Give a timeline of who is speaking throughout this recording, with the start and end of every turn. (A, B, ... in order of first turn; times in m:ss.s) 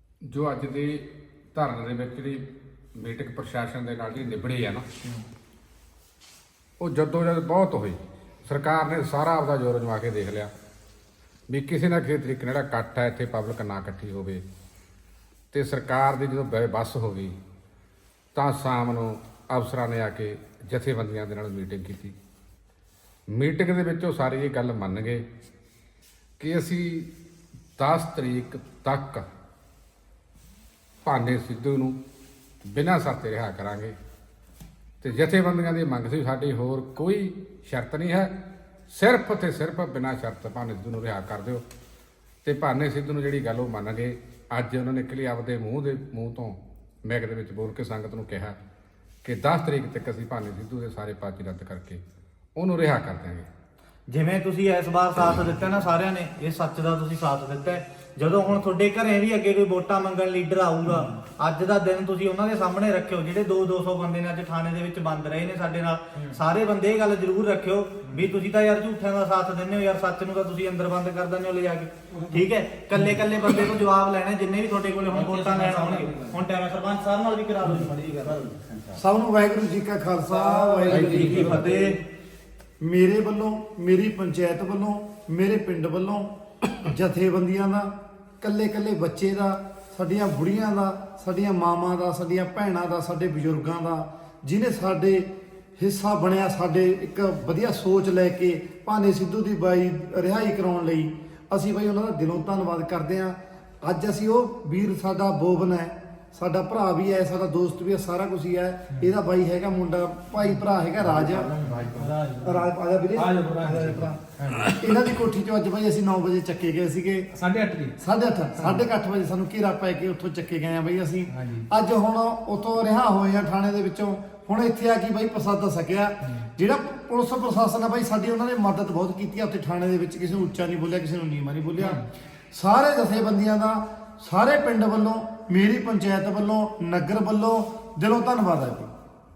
0:00.3-0:02.4 A
0:03.0-0:04.8 A
0:06.8-0:10.5 A
0:11.5-0:14.4 A
0:15.5-0:17.4 A
0:18.3-0:22.1 A
0:23.3-0:25.2 A
0:26.4-0:27.1 A
0:27.8-0:29.2 A
0:31.0-0:32.0 A
0:32.6-0:34.0 A
0:35.0-0:38.3 A
0:38.9-0:41.6 A
0:42.4-0:48.6 A
0:49.2-0:52.0 A
0:52.6-0:53.5 A
0:54.1-1:18.5 B
1:15.1-1:16.4 C
1:17.7-1:19.0 C
1:19.0-1:21.5 D
1:20.3-1:22.0 B
1:20.8-1:22.0 C
1:22.8-1:57.3 D
1:51.1-1:54.8 C
1:57.3-1:58.0 C
1:58.0-2:12.0 D
1:58.6-1:58.8 C
2:01.3-2:01.7 C
2:12.5-2:18.9 D